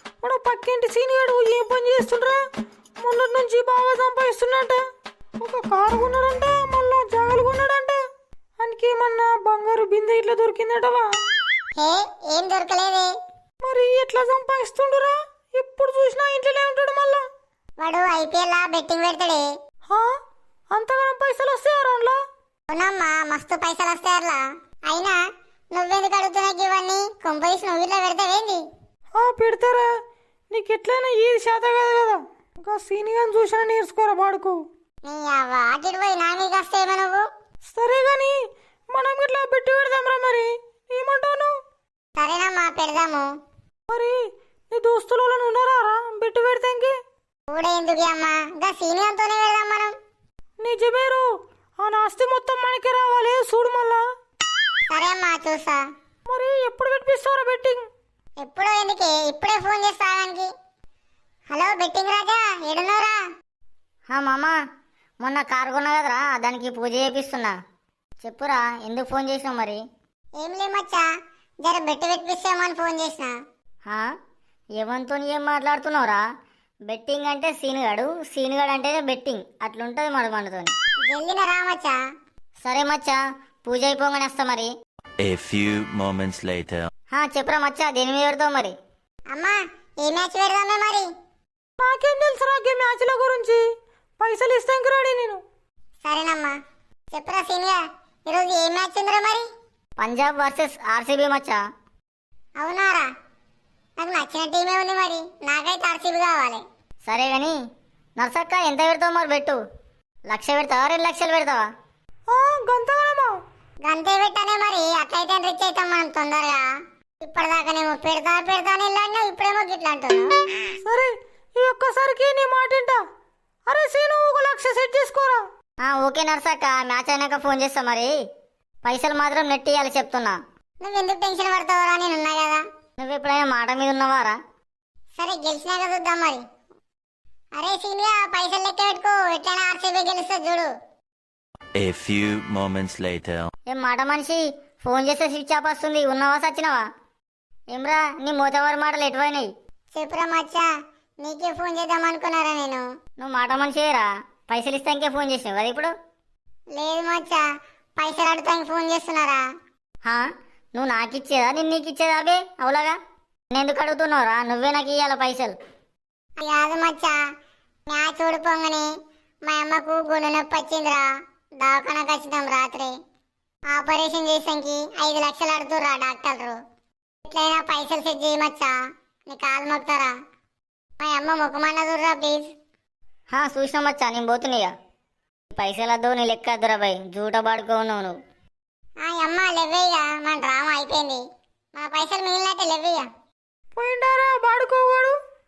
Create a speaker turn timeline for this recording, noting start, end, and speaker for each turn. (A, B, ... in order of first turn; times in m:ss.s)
0:00.2-0:02.4 A
0:03.0-0:04.8 A
0:05.4-0:08.0 A
0:08.6-0:11.1 A
0:11.8-0:13.1 B
0:13.6-0:17.2 A
0:17.8-0:19.5 B
0:20.7-0:22.2 A
0:22.7-0:25.2 B
0:25.7-0:28.6 B
0:29.1-0:29.9 A
0:30.5-0:34.6 A
0:35.0-0:37.2 B
0:37.7-0:38.4 A
0:38.9-0:41.5 A
0:42.2-0:43.3 B
0:43.9-0:44.2 A
0:44.7-0:47.0 A
0:47.5-0:49.9 B
0:50.6-0:51.3 A
0:51.8-0:54.0 A
0:54.9-0:55.8 B
0:56.3-0:57.8 A
0:58.4-1:00.5 B
1:01.5-1:03.2 B
1:04.1-1:04.6 C
1:05.2-1:07.5 C
1:08.2-1:09.8 C
1:10.4-1:11.1 B
1:11.6-1:13.3 B
1:14.8-1:16.2 C
1:16.9-1:20.7 C
1:21.1-1:22.0 B
1:22.6-1:24.7 C
1:25.2-1:26.7 D
1:27.1-1:28.8 C
1:29.3-1:31.1 B
1:31.8-1:33.6 A
1:34.2-1:35.4 A
1:36.0-1:36.5 B
1:37.1-1:39.4 B
1:40.0-1:41.6 C
1:42.6-1:43.1 B
1:44.0-1:46.6 B
1:47.0-1:47.6 C
1:48.2-1:49.6 C
1:50.3-1:51.6 C
1:52.3-1:53.4 A
1:53.8-1:56.7 B
1:57.2-2:00.3 B
2:00.8-2:03.0 A
2:03.7-2:05.4 A
2:05.8-2:08.1 C
2:08.8-2:10.4 C
2:10.8-2:12.6 B
2:13.0-2:14.4 C
2:15.2-2:16.4 B
2:17.6-2:20.7 B
2:21.8-2:23.4 D
2:23.7-2:26.8 C
2:27.7-2:29.5 C
2:29.9-2:30.7 B
2:31.2-2:32.8 B
2:33.2-2:35.9 C
2:36.8-2:37.4 B
2:38.0-2:39.4 B
2:40.0-2:43.0 C
2:43.5-2:45.6 C
2:46.4-2:47.2 B
2:47.9-2:48.9 B
2:49.5-2:51.1 B
2:51.6-2:52.9 B
2:53.7-2:56.6 B
2:57.3-2:58.8 B
2:59.3-3:00.1 B
3:01.0-3:02.5 B
3:03.3-3:04.7 C
3:05.5-3:08.2 C
3:09.0-3:11.2 B
3:11.8-3:13.1 B
3:13.8-3:15.2 A